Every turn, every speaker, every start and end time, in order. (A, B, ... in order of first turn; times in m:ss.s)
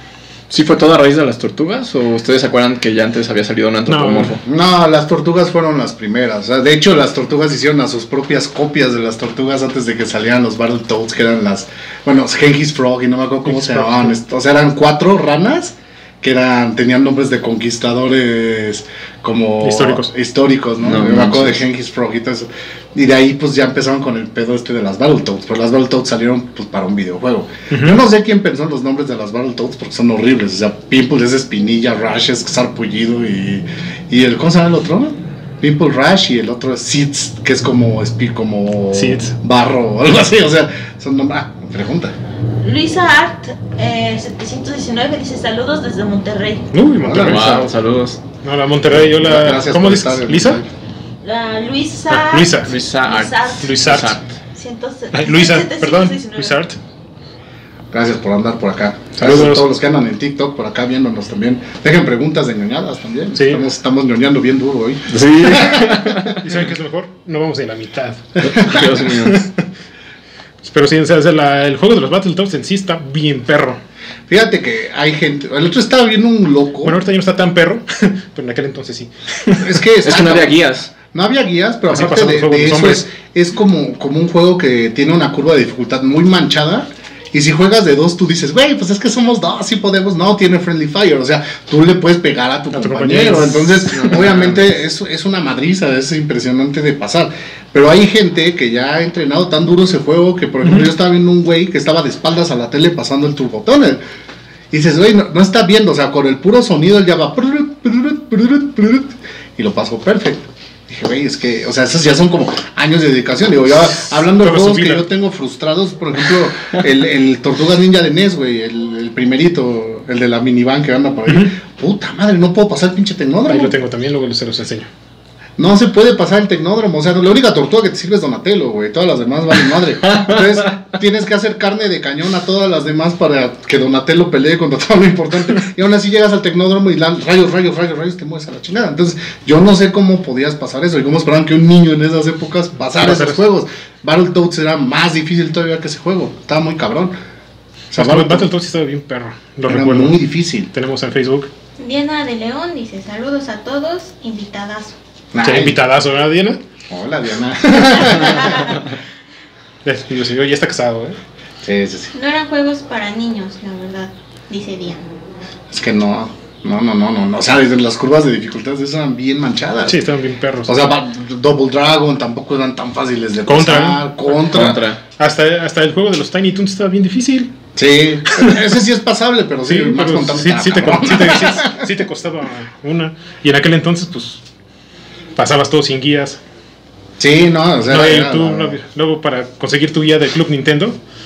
0:00.5-0:04.4 A
0:03.9-0:04.4 B
0:04.4-0:42.1 C
0:13.4-0:14.2 B
0:19.6-0:20.1 B
0:20.8-0:21.6 A
0:27.7-0:28.0 B
0:38.9-0:39.3 B
0:42.6-0:46.7 D
0:46.7-0:47.6 B
0:47.0-0:47.7 C
0:47.0-0:48.2 A
0:48.4-0:50.6 B
0:48.9-0:50.7 C
0:51.2-0:53.8 D
0:52.1-0:52.7 B
0:52.6-0:54.3 A
0:53.6-0:54.2 B
0:54.5-0:56.6 D
0:55.1-0:56.8 B
0:57.9-1:06.3 C
0:59.2-0:59.7 B
1:03.3-1:03.6 B
1:05.1-1:06.4 A
1:06.4-1:08.5 B
1:08.4-1:09.4 A
1:10.6-1:13.8 B
1:14.3-1:17.0 C
1:16.8-1:19.6 B
1:19.6-1:44.0 C
1:20.0-1:20.9 A
1:21.9-1:23.0 B
1:32.7-1:33.9 B
1:33.9-1:34.6 A
1:44.7-2:03.7 C
1:54.2-1:55.0 B
2:01.3-2:01.5 B
2:03.4-2:04.9 B
2:05.6-2:27.1 C
2:23.0-2:23.4 B
2:27.9-2:28.5 C
2:27.9-2:30.2 B
2:29.6-2:30.7 C
2:30.7-2:31.5 B
2:31.8-2:35.0 E
2:35.3-2:35.8 C
2:35.4-2:36.6 B
2:36.9-2:38.8 C
2:39.8-2:41.2 B
2:41.6-2:42.1 C
2:42.1-2:45.1 E
2:45.7-2:50.0 C
2:49.8-2:50.7 B
2:50.6-2:54.8 C
2:53.4-2:54.5 B
2:54.5-2:55.0 A
2:55.2-2:57.5 B
2:57.8-3:01.8 C
2:58.3-2:58.6 B
2:59.6-3:04.4 B
3:05.4-3:06.4 B
3:07.2-3:08.8 C
3:07.9-3:11.0 B